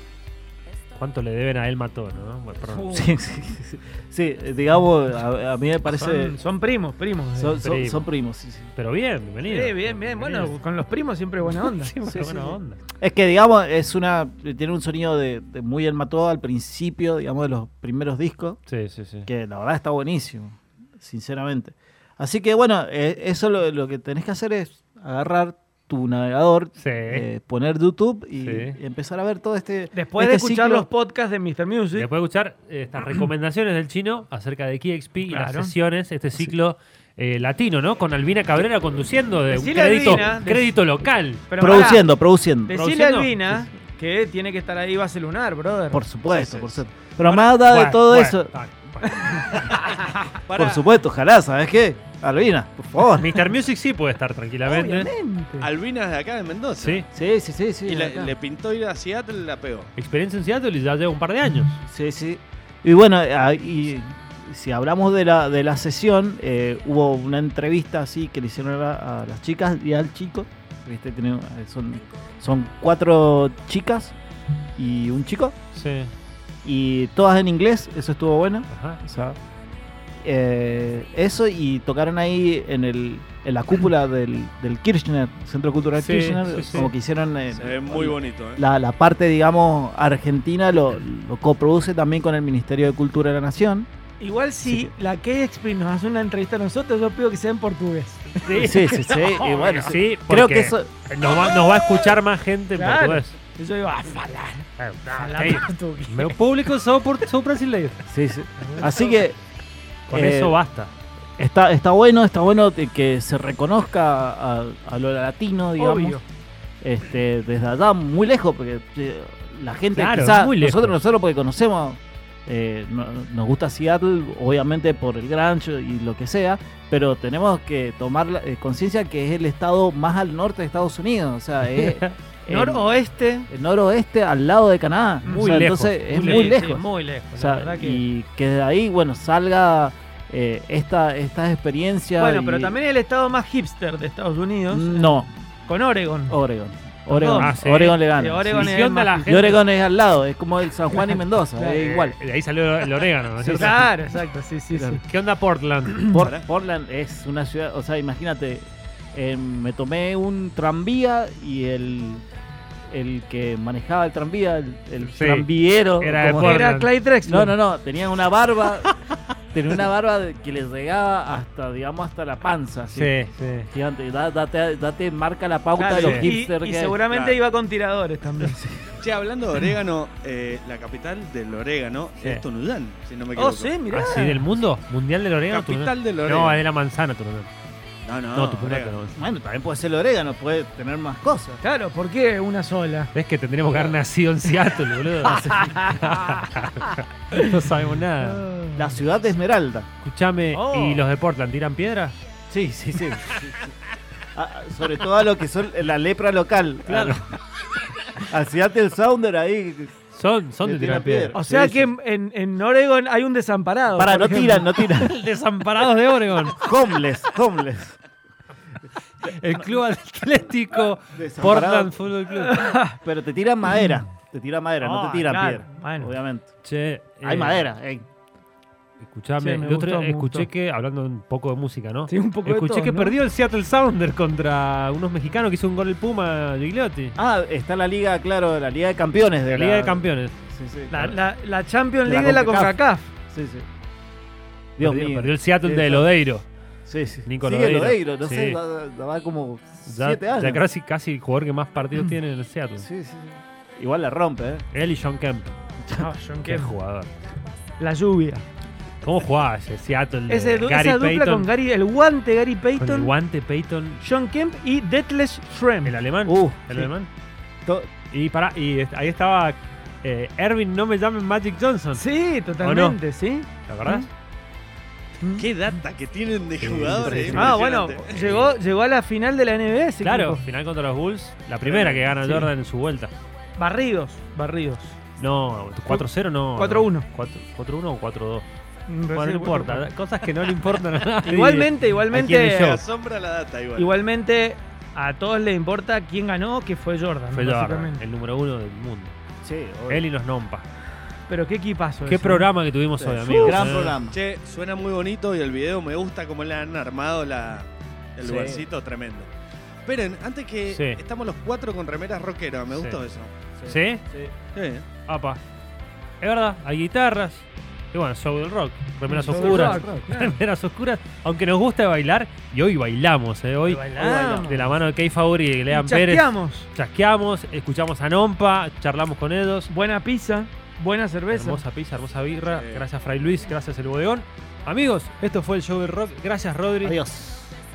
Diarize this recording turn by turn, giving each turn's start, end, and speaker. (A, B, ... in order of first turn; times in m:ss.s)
0:01.0-0:02.9 A
0:02.7-0:03.1 B
0:02.9-0:06.4 C
0:05.8-0:07.6 B
0:07.4-0:08.7 C
0:07.6-0:08.1 A
0:08.8-0:10.5 A
0:09.5-0:11.9 B
0:11.4-0:12.8 A
0:12.1-0:18.6 C
0:18.7-0:19.3 A
0:19.3-0:30.9 C
0:26.8-0:27.3 A
0:28.4-0:28.8 A
0:29.9-0:32.1 B
0:31.9-0:41.5 A
0:35.3-0:35.7 B
0:39.5-0:40.8 B
0:41.5-0:42.1 B
0:41.6-0:42.8 C
0:42.7-0:46.0 B
0:42.7-0:43.6 A
0:45.9-0:48.5 C
0:46.3-0:46.7 D
0:47.2-0:49.8 A
0:49.1-0:50.2 B
0:50.5-0:50.8 D
0:50.6-0:53.4 C
0:53.1-0:55.1 A
0:54.6-0:55.7 B
0:55.6-0:57.0 D
0:56.8-0:57.1 A
0:57.1-0:58.3 C
0:57.9-0:59.9 D
1:00.0-1:01.8 A
1:01.8-1:14.2 C
1:14.8-1:15.6 C
1:15.7-1:16.1 A
1:16.6-1:19.4 C
1:18.7-1:19.0 A
1:20.2-1:33.9 C
1:26.0-1:26.9 A
1:27.5-1:28.6 D
1:34.2-1:39.9 B
1:34.6-1:34.9 C
1:38.4-1:38.8 A
1:38.5-1:40.9 C
1:39.8-1:43.3 A
1:42.8-1:46.4 B
1:44.8-1:48.0 A
1:48.1-1:49.4 C
1:48.6-1:49.2 B
1:50.1-1:50.9 A
1:50.1-1:50.6 C
1:51.4-1:56.2 C
1:55.8-1:56.2 B
1:56.8-2:12.9 C
1:59.9-2:01.0 A
2:11.6-2:12.1 A
2:12.5-2:13.5 B
2:13.5-2:22.8 C
2:15.2-2:15.6 B
2:15.3-2:16.6 A
2:16.1-2:18.0 B
2:22.2-2:26.4 B
2:24.7-2:25.3 C
2:26.3-2:32.2 C
2:27.1-2:29.6 B
2:27.3-2:28.0 A
2:28.5-2:29.4 A
2:31.6-2:32.0 B
2:31.8-2:33.9 A
2:33.4-2:33.9 C
2:33.5-2:35.0 B
2:35.0-2:36.1 A
2:36.0-2:42.2 C
2:36.1-2:36.4 D
2:42.9-2:46.6 C
2:45.0-2:45.5 A
2:46.0-2:46.9 A
2:46.4-2:47.6 B
2:47.2-2:49.0 C
2:49.5-2:53.1 C
2:53.0-2:53.7 A
2:53.7-2:57.0 C
2:55.8-2:58.6 B
2:56.0-2:56.3 A
2:57.1-2:57.4 D
2:58.4-2:58.8 C
2:59.0-3:03.7 D
3:03.4-3:04.5 B
3:03.9-3:07.5 A
3:05.5-3:06.6 D
3:08.0-3:09.0 D
3:08.3-3:09.2 A
3:09.2-3:11.6 C
3:11.6-3:13.1 B
3:13.1-3:18.5 A
3:15.2-3:15.7 C
3:15.3-3:16.4 B
3:18.2-3:19.0 B
3:18.7-3:19.9 C
3:20.0-3:22.2 A
3:20.5-3:21.1 B
3:22.5-3:23.7 C
3:24.4-3:27.3 C
3:26.9-3:27.2 A
3:28.2-3:29.9 C
3:30.1-3:31.4 A
3:30.6-3:31.9 C
3:31.3-3:34.8 B
3:34.0-3:35.1 C
3:34.9-3:36.6 A
3:36.5-3:38.0 C
3:39.2-3:42.8 A
3:41.1-3:42.0 C
3:42.5-3:43.0 B
3:43.0-3:46.5 C
3:44.8-3:46.1 B
3:46.6-3:47.7 A
3:47.2-3:48.1 C
3:49.0-3:57.2 A
3:49.4-3:50.5 B
3:52.1-3:53.2 B
3:57.2-4:01.2 C
3:59.5-4:00.3 A
4:00.9-4:03.1 B
4:02.0-4:02.8 C
4:03.3-4:03.7 C
4:04.8-4:06.1 C
4:04.8-4:06.4 A
4:06.9-4:10.6 C
4:07.3-4:08.6 A
4:09.9-4:12.9 A
4:12.8-4:14.7 C
4:14.7-4:15.5 A
4:15.8-4:16.1 C
4:15.9-4:16.7 B
4:16.4-4:17.1 A
4:17.8-4:18.4 B
4:19.0-4:21.5 A
4:20.3-4:23.1 B
4:22.8-4:24.0 A
4:24.0-4:26.0 B
4:25.8-4:27.1 A
4:26.2-4:26.9 C
4:27.6-4:27.9 C
4:28.1-4:32.0 A
4:31.9-4:34.1 B
4:32.6-4:33.0 A
4:33.7-4:34.1 A
4:35.2-4:35.5 B
4:35.4-4:38.5 D
4:36.6-4:37.6 A
4:36.9-4:37.6 C
4:37.3-4:40.4 B
4:40.0-4:43.1 A
4:41.6-4:42.1 D
4:42.2-4:42.5 B
4:43.6-4:45.0 B
4:45.2-4:48.5 A
4:45.9-4:47.1 B
4:48.9-4:49.9 B
4:49.1-4:52.8 A
4:51.2-4:52.8 B
4:52.6-4:53.9 D
4:53.8-4:58.0 B
4:57.3-4:59.1 A
4:59.4-5:00.1 C
4:59.9-5:00.6 A
5:01.3-5:02.5 B
5:02.1-5:04.0 A
5:03.0-5:04.2 C
5:03.3-5:03.6 B
5:04.1-5:09.3 D
5:08.2-5:08.5 A
5:08.2-5:08.7 C
5:09.8-5:13.3 D
5:10.7-5:11.0 A
5:12.7-5:13.0 A
5:13.6-5:14.3 C
5:13.7-5:14.0 A
5:14.6-5:14.9 D
5:15.1-5:15.4 A
5:16.2-5:29.7 A
5:19.1-5:20.4 B
5:19.3-5:20.0 C
5:23.6-5:24.8 B
5:24.0-5:24.6 C
5:25.7-5:26.7 B
5:29.7-5:31.6 B
5:31.3-5:37.0 A
5:32.5-5:32.8 D
5:36.8-5:37.6 C